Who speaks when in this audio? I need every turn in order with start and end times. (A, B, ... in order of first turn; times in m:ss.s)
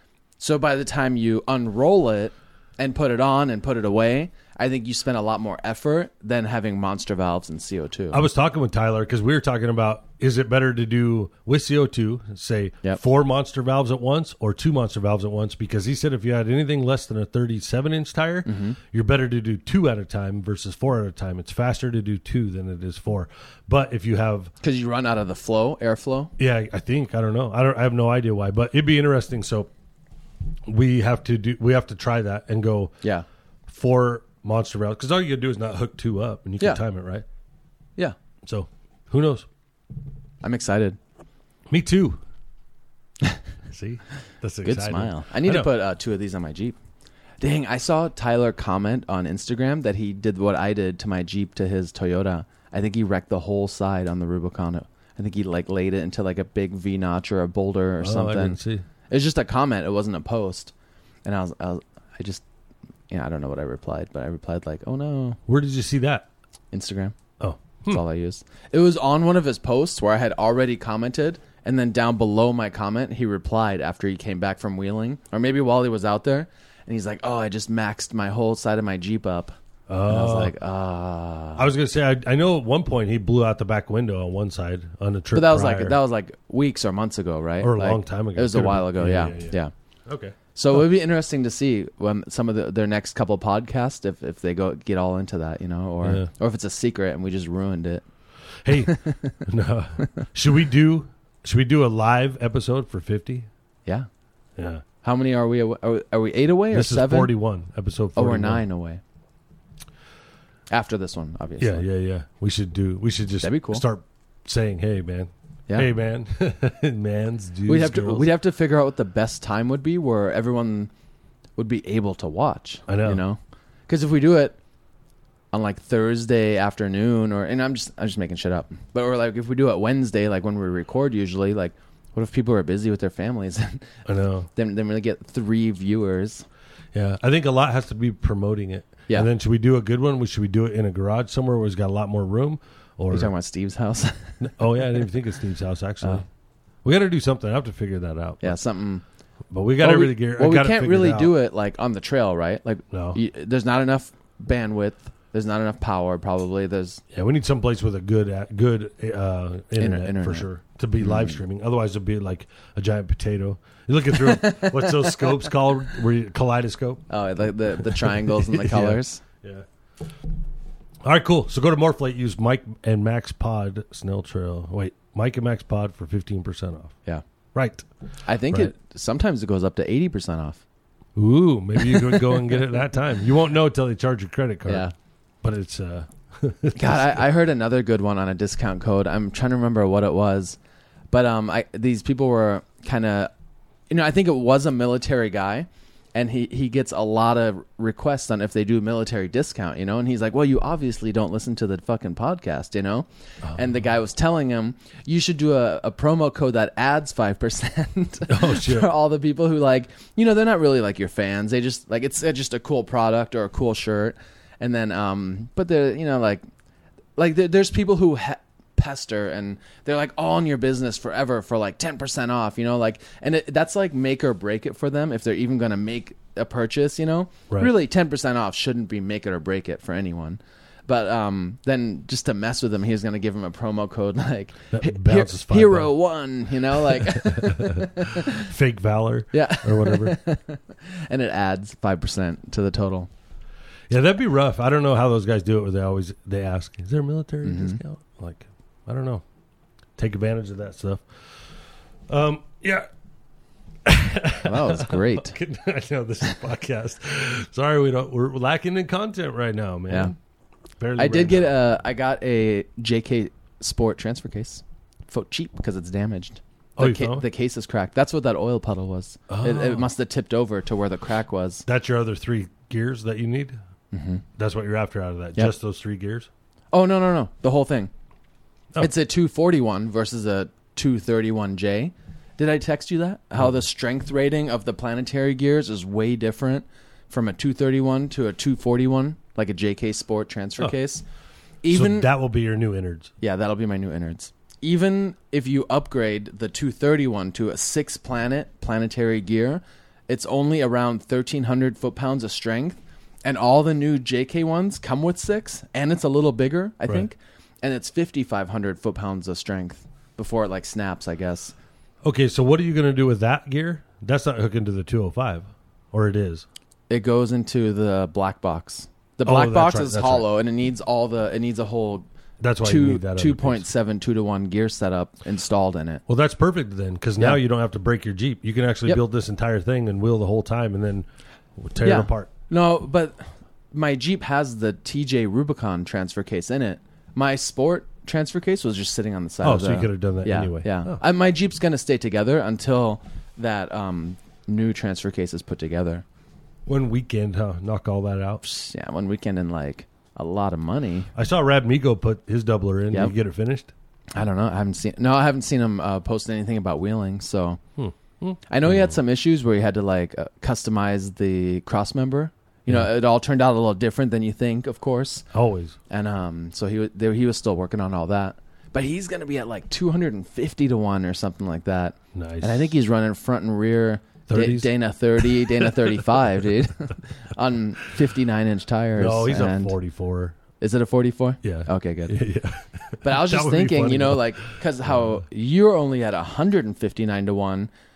0:00.4-0:08.2 A
0:08.1-0:24.5 B
0:18.4-0:18.8 A
0:24.6-0:26.3 A
0:26.4-0:29.7 B
0:30.7-0:33.0 B
0:33.7-0:37.2 B
0:38.4-0:39.4 B
0:40.4-0:41.0 A
0:41.7-0:42.2 B
0:43.7-0:45.7 B
0:44.6-0:46.8 A
0:47.4-1:00.7 A
0:58.0-0:58.9 B
1:01.2-1:02.4 A
1:03.1-1:05.4 A
1:05.5-1:06.3 B
1:06.7-1:07.1 A
1:07.4-1:08.0 B
1:07.9-1:21.7 A
1:19.9-1:20.5 B
1:21.6-1:26.0 B
1:25.3-1:29.7 A
1:27.6-1:30.4 B
1:30.6-1:38.0 A
1:36.0-1:36.3 B
1:38.6-1:43.5 B
1:38.7-1:39.4 A
1:44.6-1:44.8 B
1:45.0-1:47.3 A
1:46.7-1:48.6 B
1:48.2-1:49.0 A
1:50.7-1:51.8 A
1:51.6-1:58.3 B
1:53.4-1:53.8 A
1:57.7-2:00.9 A
2:01.6-2:04.6 A
2:02.9-2:03.2 B
2:05.5-2:13.9 A
2:14.1-2:14.5 B
2:14.6-2:16.4 A
2:16.9-2:23.3 B
2:23.1-2:24.4 A
2:24.4-2:26.2 B
2:26.8-2:28.6 B
2:28.4-2:29.0 A
2:29.5-2:31.3 B
2:29.8-2:37.0 A
2:32.9-2:33.2 B
2:37.1-2:47.1 B
2:39.8-2:40.4 A
2:41.0-2:41.4 A
2:44.1-2:45.4 A
2:47.1-2:49.2 A
2:47.8-2:49.6 B
2:51.0-2:57.0 B
2:57.5-2:57.9 B
2:58.2-3:00.6 A
2:58.5-2:58.7 B
3:01.2-3:04.9 B
3:01.8-3:02.4 A
3:04.6-3:04.9 A
3:05.4-3:07.2 B
3:06.8-3:10.6 A
3:11.1-3:13.3 A
3:13.9-3:36.4 A
3:28.3-3:28.9 B
3:37.2-3:58.5 A
3:54.7-3:55.9 B
3:56.8-4:00.2 B
3:59.3-4:03.1 A
4:03.9-4:09.2 B
4:07.4-4:07.8 A
4:10.0-4:11.0 B
4:12.1-4:12.9 B
4:13.8-4:20.1 B
4:14.4-4:15.3 A
4:19.9-4:20.1 A
4:20.8-4:21.6 B
4:21.0-4:31.6 A
4:26.8-4:27.2 B
4:29.3-4:29.9 B
4:31.6-4:33.6 B
4:33.9-4:34.2 A
4:34.4-4:36.3 B
4:36.7-4:37.9 A
4:38.8-4:51.0 A
4:51.6-4:52.1 A
4:51.7-4:53.1 B
4:53.2-5:11.6 A
5:12.0-5:16.4 B
5:16.9-5:22.1 A
5:19.2-5:20.2 B
5:22.4-5:23.7 B
5:22.6-5:26.0 A
5:26.1-5:31.1 B
5:31.6-5:32.3 B
5:31.8-5:46.0 A
5:39.4-5:41.0 B
5:46.7-5:48.4 B
5:48.4-5:51.1 A
5:51.1-5:53.7 B
5:54.1-5:57.6 A
5:57.8-5:58.9 B
5:58.5-6:05.2 A
6:05.3-6:05.8 B
6:05.9-6:19.7 A
6:12.1-6:12.7 B
6:14.3-6:16.1 B
6:19.0-6:20.4 B
6:20.6-6:22.2 A
6:21.4-6:24.6 B
6:23.0-6:27.7 A